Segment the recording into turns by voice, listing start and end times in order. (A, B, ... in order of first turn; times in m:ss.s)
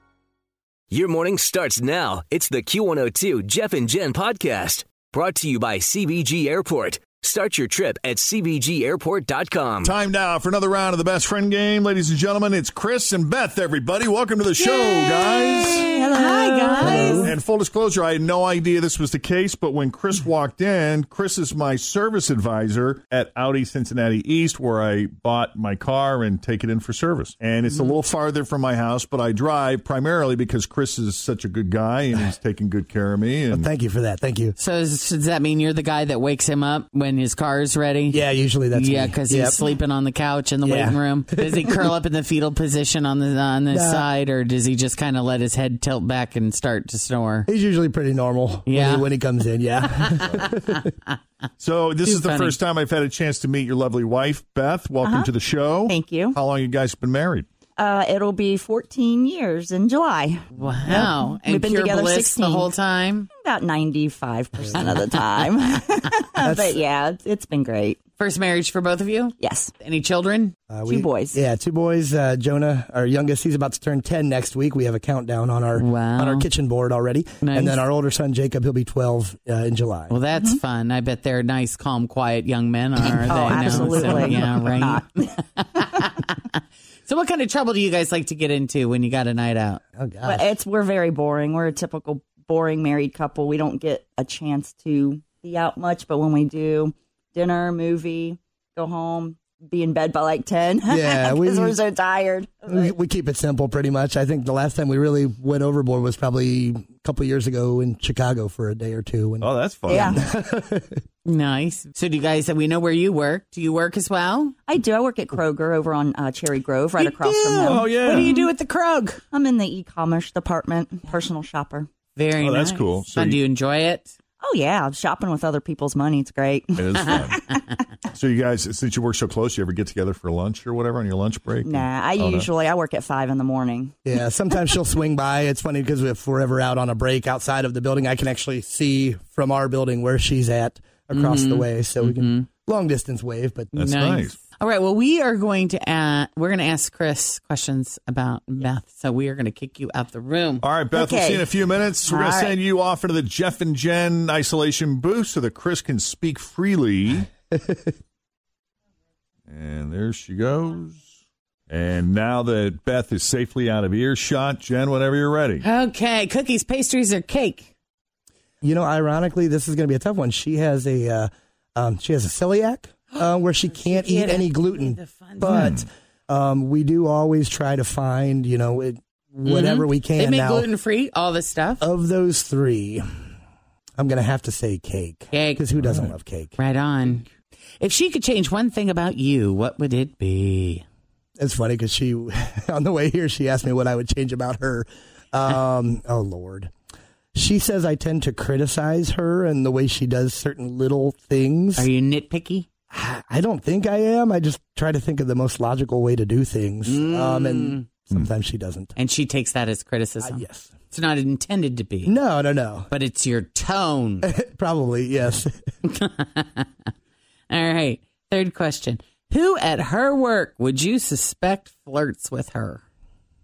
0:00.9-0:09.9 A
0:09.8-0:15.9 B
0:14.7-0:17.3 C
0:15.4-0:17.2 D
0:16.8-0:17.3 E
0:16.8-0:33.7 B
0:27.7-0:27.9 C
0:33.5-0:34.6 E
0:34.6-0:47.5 C
0:38.1-0:39.6 E
0:40.6-0:41.6 E
0:43.7-0:44.1 E
0:47.5-0:50.9 E
0:48.7-0:49.1 C
0:51.6-0:57.5 B
0:52.0-0:52.6 C
0:55.0-0:55.3 D
0:55.8-0:56.4 D
0:57.8-1:02.7 D
1:00.6-1:03.3 C
1:03.4-1:08.0 D
1:04.6-1:04.9 E
1:04.7-1:05.4 C
1:06.4-1:06.8 E
1:08.2-1:10.5 C
1:09.4-1:09.7 D
1:10.7-1:20.2 E
1:10.8-1:11.4 D
1:15.8-1:16.5 C
1:17.4-1:17.8 C
1:20.1-1:29.8 C
1:23.2-1:25.2 D
1:23.4-1:24.6 E
1:30.0-1:30.5 E
1:30.2-1:42.9 D
1:40.9-1:41.8 E
1:42.7-1:51.0 E
1:49.4-1:50.2 B
1:49.9-1:50.2 D
1:51.2-1:54.6 C
1:54.6-1:58.5 D
1:57.0-1:59.2 C
1:57.6-1:58.3 B
1:59.3-2:01.9 D
2:02.1-2:04.1 C
2:02.4-2:03.4 B
2:04.4-2:07.6 D
2:06.8-2:07.4 B
2:08.1-2:12.5 B
2:11.6-2:13.9 D
2:14.0-2:23.8 E
2:21.1-2:22.5 C
2:23.8-2:24.4 B
2:23.8-2:30.7 C
2:30.6-2:37.3 B
2:30.9-2:31.5 D
2:32.1-2:32.5 C
2:37.5-2:37.9 E
2:39.5-2:41.0 B
2:41.7-2:45.6 B
2:45.6-2:47.7 C
2:48.6-3:00.7 E
2:53.2-2:55.7 C
2:55.5-2:55.8 B
2:59.4-3:01.8 C
3:01.8-3:03.0 E
3:04.0-3:06.5 E
3:05.3-3:05.7 C
3:06.6-3:07.3 C
3:07.8-3:10.8 C
3:11.4-3:16.7 E
3:17.3-3:21.9 E
3:21.8-3:22.7 C
3:22.9-3:29.0 E
3:26.8-3:27.8 C
3:29.0-3:32.2 C
3:30.2-3:30.7 E
3:32.0-3:32.9 E
3:32.9-3:34.3 C
3:34.2-3:35.6 E
3:35.8-3:36.7 C
3:37.5-3:42.8 C